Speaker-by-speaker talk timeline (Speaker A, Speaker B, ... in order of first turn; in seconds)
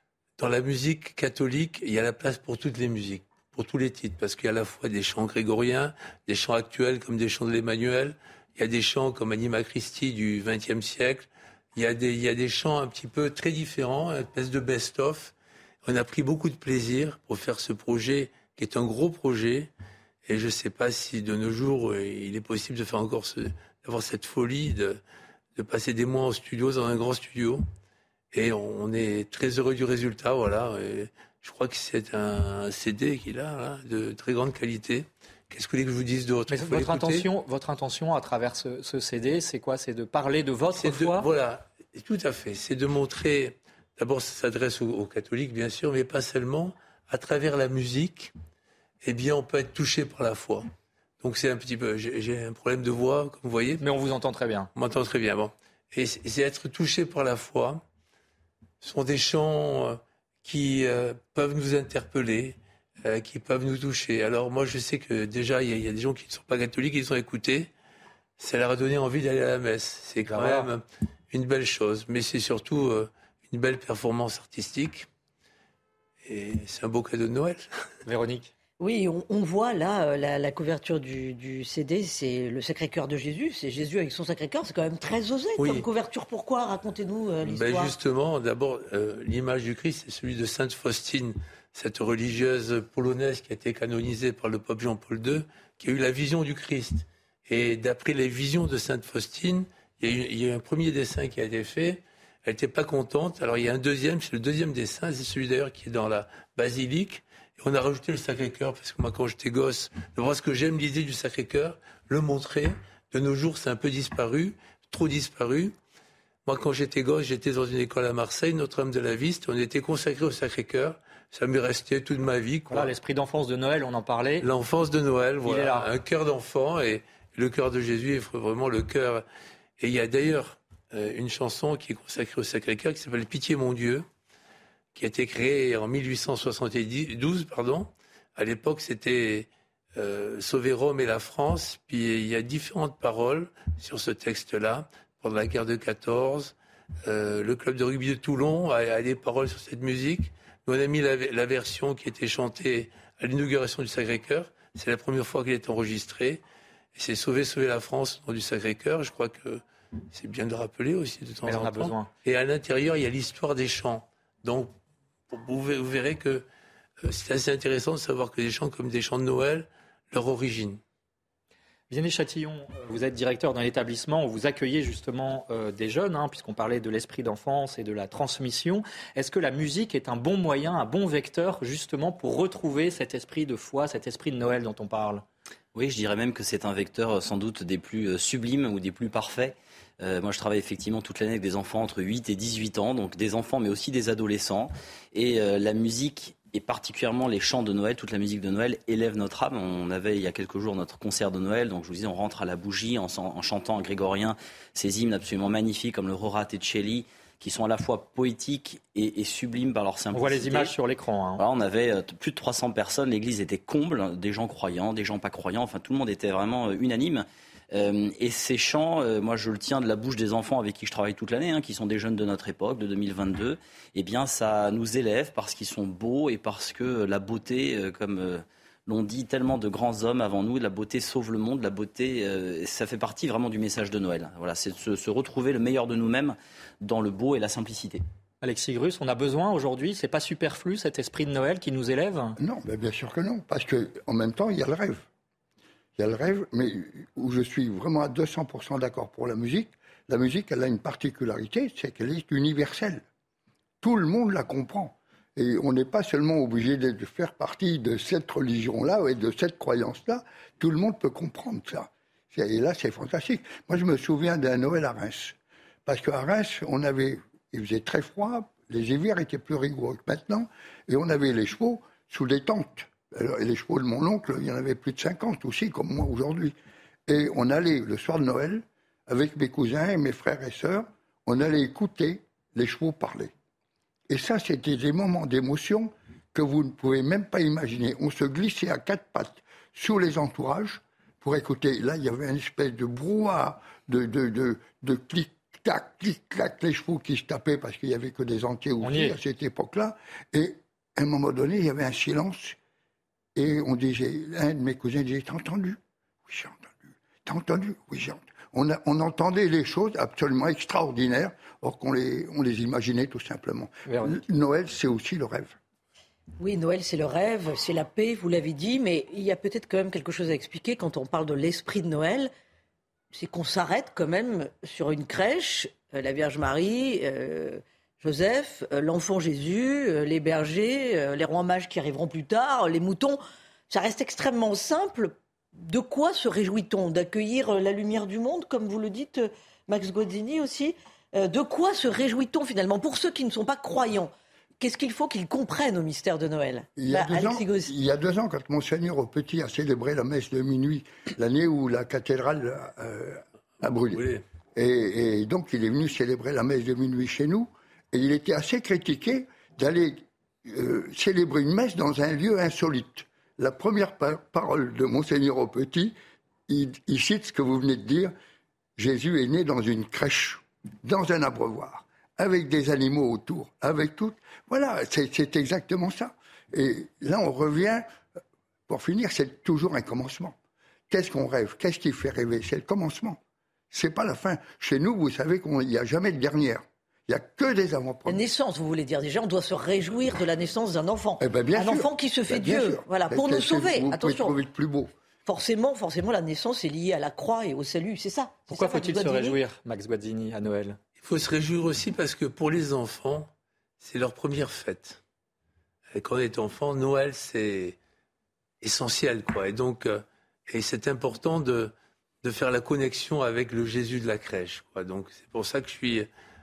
Speaker A: 0.4-15.3, 15.8-19.7, 20.3-25.0, 25.6-27.6, 28.3-37.3, 40.7-48.3, 49.0-50.7, 51.2-53.8, 54.8-57.8, 58.8-67.7, 68.4-75.1, 76.2-77.7, 85.6-85.9, 87.5-115.8, 116.5-122.9, 124.4-129.2, 129.8-134.1, 134.9-146.5, 147.1-156.4, 156.9-164.8, 165.3-166.4, 167.0-170.8, 353.9-354.2, 401.0-405.0, 405.9-407.8, 408.6-416.1
Speaker B: 36.5-41.3, 53.8-54.7, 70.3-70.7, 78.1-78.5, 122.7-124.5, 125.4-125.9, 161.4-162.1, 171.9-185.2, 210.1-211.4, 238.4-242.4, 298.8-299.2, 313.9-314.2, 398.5-400.8
Speaker C: 78.8-87.9, 316.4-322.3, 323.1-333.2, 333.7-347.7, 388.1-394.4, 395.3-399.4
Speaker D: 185.8-210.7, 211.4-238.0
Speaker E: 242.4-245.1, 246.0-253.0, 253.8-276.6, 277.1-283.3, 284.1-302.6, 303.4-315.6, 346.8-365.9, 366.5-368.1, 368.8-377.9, 378.7-380.4, 380.9-383.2, 383.7-388.2, 391.2-394.9